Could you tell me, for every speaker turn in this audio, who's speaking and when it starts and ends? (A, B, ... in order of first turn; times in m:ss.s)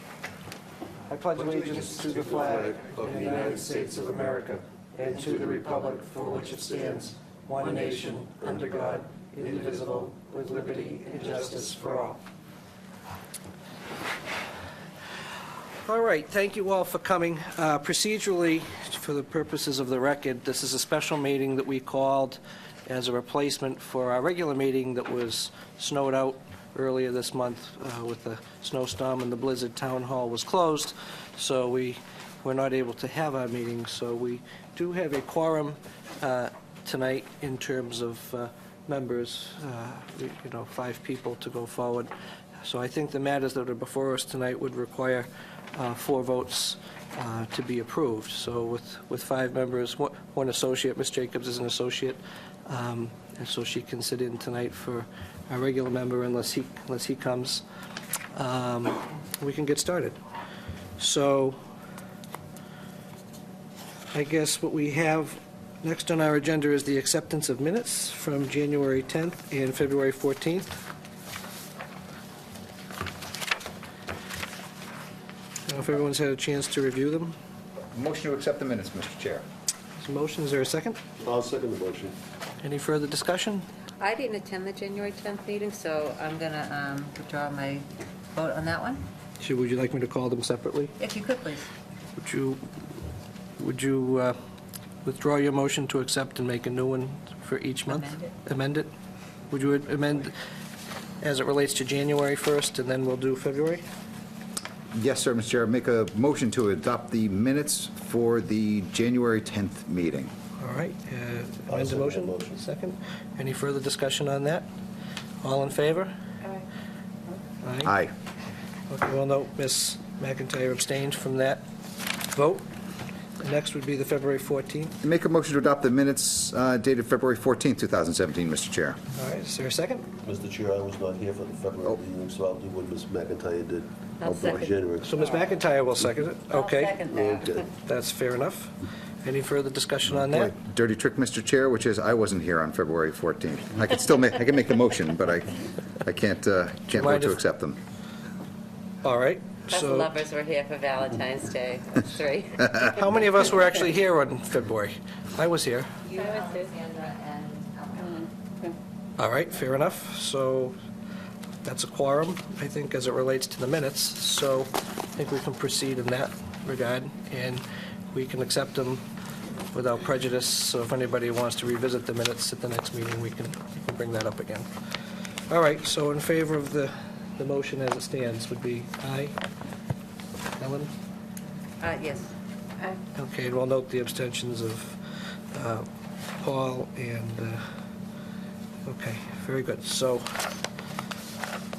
0:01.1-0:12.2 A
0:15.8-0:42.1 A
0:42.6-0:57.6 A
0:58.3-1:00.2 A
1:01.0-1:01.6 A
1:04.1-1:10.8 A
1:15.7-1:17.4 A
1:17.9-1:19.4 B
1:20.0-1:21.0 A
1:21.2-1:22.2 C
1:22.6-1:23.6 A
1:24.0-1:29.0 D
1:29.4-1:30.9 A
1:31.0-1:31.7 D
1:32.2-1:32.7 A
1:33.6-1:34.4 A
1:35.0-1:38.9 A
1:37.9-1:38.2 D
1:39.5-1:40.4 A
1:41.2-1:43.8 A
1:44.9-1:50.3 B
1:50.6-1:54.7 A
1:51.7-1:52.6 C
1:55.4-1:56.1 A
1:57.6-1:58.0 A
1:57.8-1:58.1 B
1:58.9-2:01.6 A
2:02.2-2:02.7 A
2:03.4-2:05.0 A
2:05.0-2:09.0 B
2:09.2-2:10.1 A
2:10.2-2:15.2 C
2:14.2-2:14.7 D
2:15.0-2:17.0 A
2:16.5-2:17.7 D
2:17.1-2:17.6 C
2:17.8-2:20.5 A
2:20.2-2:27.8 B
2:27.0-2:27.4 A
2:29.0-2:30.1 A
2:29.7-2:32.9 D
2:32.9-2:35.9 A
2:36.1-2:38.3 D
2:39.2-2:40.8 A
2:41.6-2:49.0 A
2:49.7-2:54.7 A
2:55.5-2:59.4 A
3:00.6-3:00.9 A
3:01.8-3:02.3 D
3:03.1-3:05.0 A
3:05.5-3:05.9 A
3:06.4-3:07.6 A
3:08.8-3:10.5 A